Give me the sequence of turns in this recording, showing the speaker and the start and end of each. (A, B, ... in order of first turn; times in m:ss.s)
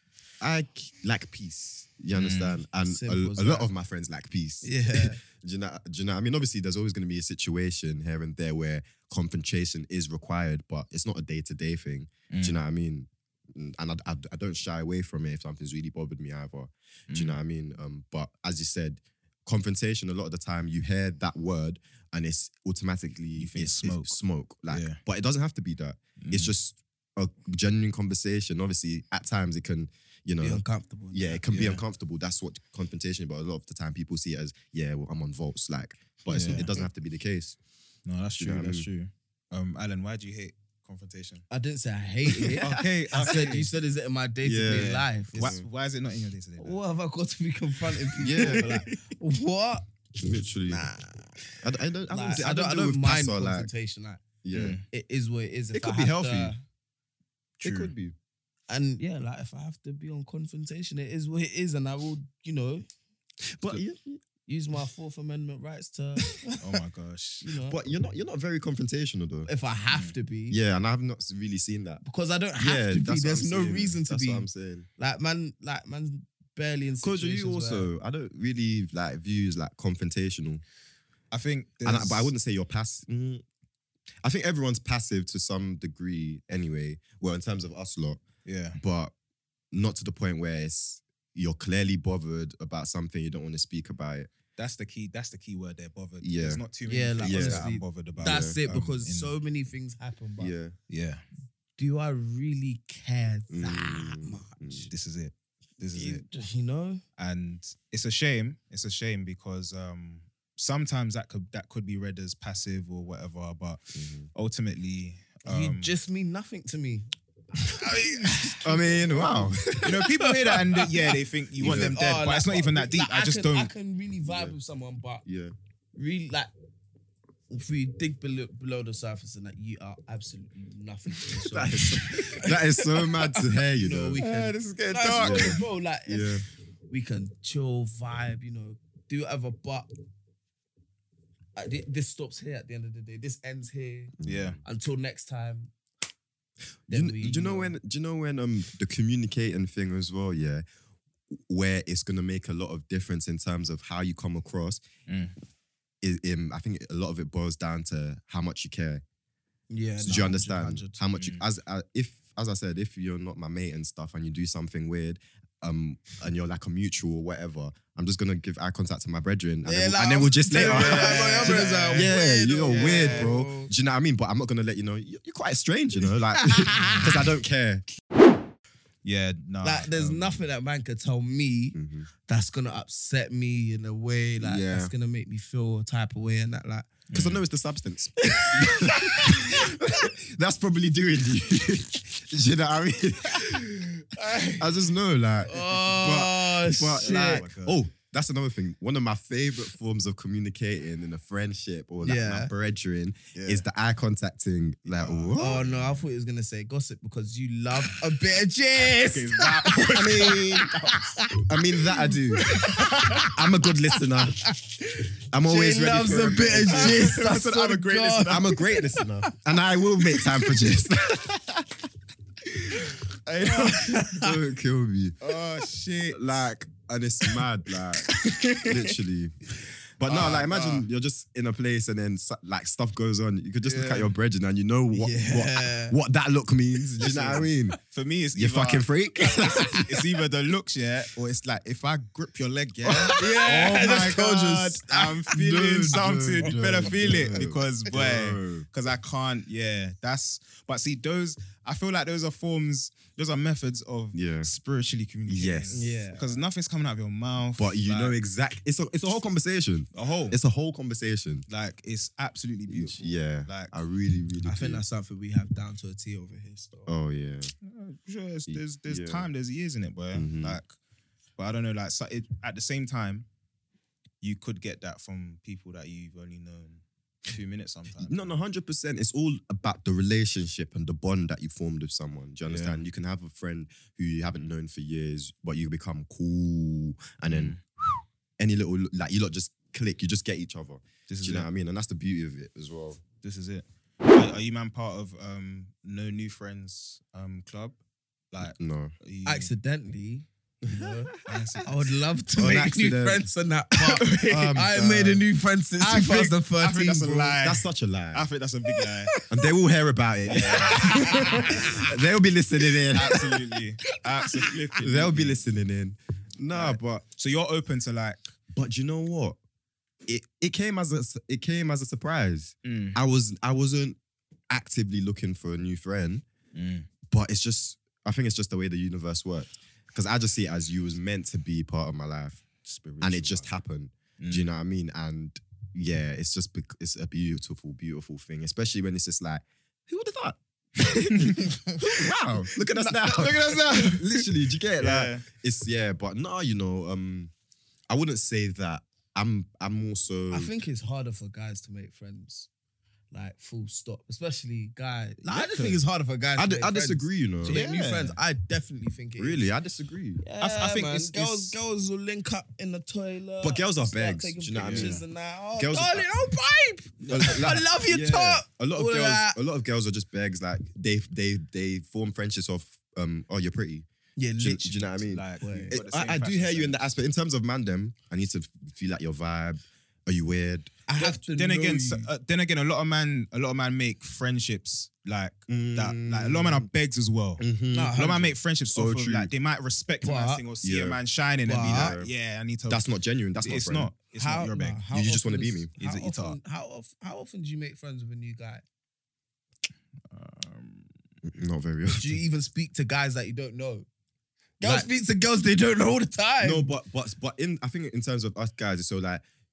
0:00.4-0:37.6 A
0:02.1-0:02.6 B
0:02.8-0:03.7 C
0:04.6-0:05.2 C
0:12.3-0:12.6 B
0:17.1-0:17.4 B
0:23.4-0:25.0 B
0:26.2-0:26.5 B
0:30.4-0:31.4 C
0:31.5-0:31.8 B
0:36.3-0:36.7 C
0:36.3-0:36.7 B
0:38.0-0:41.4 B
0:38.4-0:38.9 A
0:41.5-0:45.5 C
0:42.6-0:43.7 B
0:44.4-0:45.6 A
0:44.8-0:46.8 B
0:46.6-0:49.8 C
0:48.2-0:48.8 A
0:48.2-0:48.8 B
0:50.2-0:50.8 A
0:50.7-0:51.4 C
0:51.6-0:53.7 A
0:52.1-0:54.2 C
0:54.4-0:54.8 A
0:54.5-0:54.8 B
0:54.9-0:56.6 C
0:55.7-0:56.5 A
0:57.6-0:57.9 B
0:57.6-0:58.2 A
0:58.7-1:02.8 C
1:03.5-1:04.2 A
1:04.5-1:06.6 C
1:06.6-1:07.5 B
1:07.4-1:07.8 C
1:07.6-1:09.5 A
1:09.4-1:10.6 C
1:10.5-1:12.0 A
1:12.0-1:17.9 C
1:12.6-1:14.9 A
1:17.0-1:20.6 A
1:21.3-1:22.3 B
1:21.8-1:23.4 A
1:24.2-1:28.2 A
1:28.4-1:28.8 B
1:28.7-1:29.1 A
1:29.7-1:34.3 A
1:34.6-1:39.3 B
1:36.2-1:36.6 A
1:36.8-1:40.5 C
1:37.2-1:38.6 A
1:40.4-1:40.8 A
1:40.9-1:41.2 B
1:41.8-1:44.9 C
1:43.5-1:44.9 A
1:44.9-1:46.2 B
1:45.9-1:47.0 C
1:47.2-1:53.8 B
1:53.9-1:54.3 A
1:54.3-1:55.9 B
1:55.4-1:57.1 C
1:57.6-2:05.2 C
1:57.8-1:58.6 B
1:58.6-2:00.0 A
1:59.8-2:03.7 B
2:01.6-2:02.0 A
2:04.2-2:04.5 A
2:05.2-2:05.5 A
2:05.9-2:06.5 C
2:07.5-2:16.3 C
2:11.3-2:14.2 A
2:14.2-2:15.6 B
2:15.1-2:16.4 A
2:16.9-2:19.9 C
2:21.6-2:24.1 C
2:24.2-2:24.6 A
2:24.2-2:24.6 B
2:24.6-2:25.7 C
2:26.9-2:27.7 C
2:26.9-2:30.6 A
2:31.4-2:34.8 A
2:35.1-2:35.3 B
2:36.0-2:39.0 A
2:39.7-2:41.0 C
2:40.0-2:57.9 A
2:41.2-2:41.4 B
2:49.6-2:53.7 C
2:50.5-2:52.1 B
2:52.7-2:53.3 B
2:56.4-2:57.0 C
2:59.0-3:00.4 B
2:59.6-3:06.9 C
3:01.7-3:02.1 A
3:04.4-3:04.9 A
3:07.1-3:07.4 B
3:07.1-3:13.9 A
3:08.4-3:09.6 C
3:14.2-3:14.5 C
3:14.6-3:25.6 A
3:15.4-3:17.4 C
3:17.0-3:17.8 B
3:22.0-3:22.5 C
3:23.3-3:23.6 B
3:24.8-3:25.9 B
3:25.4-3:31.4 C
3:28.9-3:30.5 B
3:29.8-3:30.8 A
3:31.5-3:32.5 A
3:32.4-3:33.3 C
3:32.5-3:33.3 B
3:33.2-3:34.5 A
3:34.4-3:34.8 C
3:35.3-3:37.2 A
3:35.4-3:39.3 C
3:36.6-3:38.6 B
3:38.2-3:41.7 A
3:43.2-3:44.2 B
3:43.5-3:44.2 C
3:43.9-3:45.4 A
3:45.2-3:46.4 B
3:46.1-3:57.8 A
3:50.0-3:50.9 B
3:53.6-3:54.1 B
3:54.9-3:56.0 C
3:57.0-3:58.9 B
3:58.3-4:00.0 A
3:59.4-4:18.2 B
4:02.8-4:03.8 A
4:03.1-4:05.3 C
4:05.3-4:08.6 A
4:05.9-4:06.9 C
4:14.1-4:14.5 A
4:15.3-4:15.8 A
4:15.7-4:16.3 C
4:17.6-4:21.4 A
4:19.9-4:20.4 B
4:21.5-4:23.7 B
4:22.7-4:24.8 A
4:24.4-4:26.9 C
4:26.8-4:27.5 A
4:27.6-4:30.8 B
4:28.5-4:29.3 A
4:30.1-4:30.6 A
4:31.4-4:33.3 B
4:34.2-4:38.3 B
4:38.0-4:53.0 A
4:42.5-4:42.8 B
4:47.3-4:47.6 B
4:51.1-4:51.5 B
4:53.2-4:57.8 B
4:58.3-4:59.5 B
4:58.4-4:58.9 A
4:59.2-5:01.1 C
5:00.6-5:01.5 A
5:01.2-5:01.7 B
5:01.6-5:07.4 C
5:02.4-5:03.3 A
5:04.1-5:05.2 A
5:05.8-5:09.1 B
5:07.4-5:08.3 A
5:09.3-5:13.5 A
5:10.3-5:11.7 B
5:10.7-5:11.5 C
5:12.9-5:15.4 B
5:14.8-5:17.0 A
5:16.5-5:18.2 B
5:18.5-5:19.4 A
5:20.0-5:24.0 A
5:22.6-5:23.0 B
5:24.5-5:26.2 A
5:26.5-5:26.9 B
5:27.1-5:32.5 A
5:32.6-5:33.5 B
5:33.0-5:47.3 A
5:34.2-5:34.5 B
5:41.1-5:41.6 B
5:42.7-5:45.3 B
5:47.9-5:50.5 A
5:50.3-5:52.5 C
5:53.1-5:59.4 C
5:55.2-5:55.8 B
5:56.4-5:57.6 A
5:57.4-5:58.2 B
5:59.2-6:00.2 A
6:00.2-6:09.4 C
6:00.4-6:01.6 B
6:03.4-6:06.0 A
6:04.6-6:05.0 B
6:07.0-6:07.4 B
6:07.1-6:13.9 A
6:14.2-6:15.8 C
6:14.4-6:20.8 A
6:15.1-6:16.8 B
6:20.9-6:22.1 C
6:21.0-6:32.9 B
6:25.5-6:26.7 A
6:27.4-6:28.0 A
6:27.7-6:28.3 C
6:28.7-6:29.3 A
6:30.0-6:30.4 C
6:30.6-6:31.0 A
6:31.4-6:32.0 C
6:31.6-6:32.1 A
6:32.7-6:33.9 A
6:33.4-6:34.8 B
6:34.1-6:38.6 C
6:34.9-6:35.7 A
6:35.8-6:36.4 B
6:40.1-6:40.9 B
6:41.2-6:42.2 A
6:41.9-6:43.9 C
6:44.6-6:46.7 C
6:46.4-6:49.2 A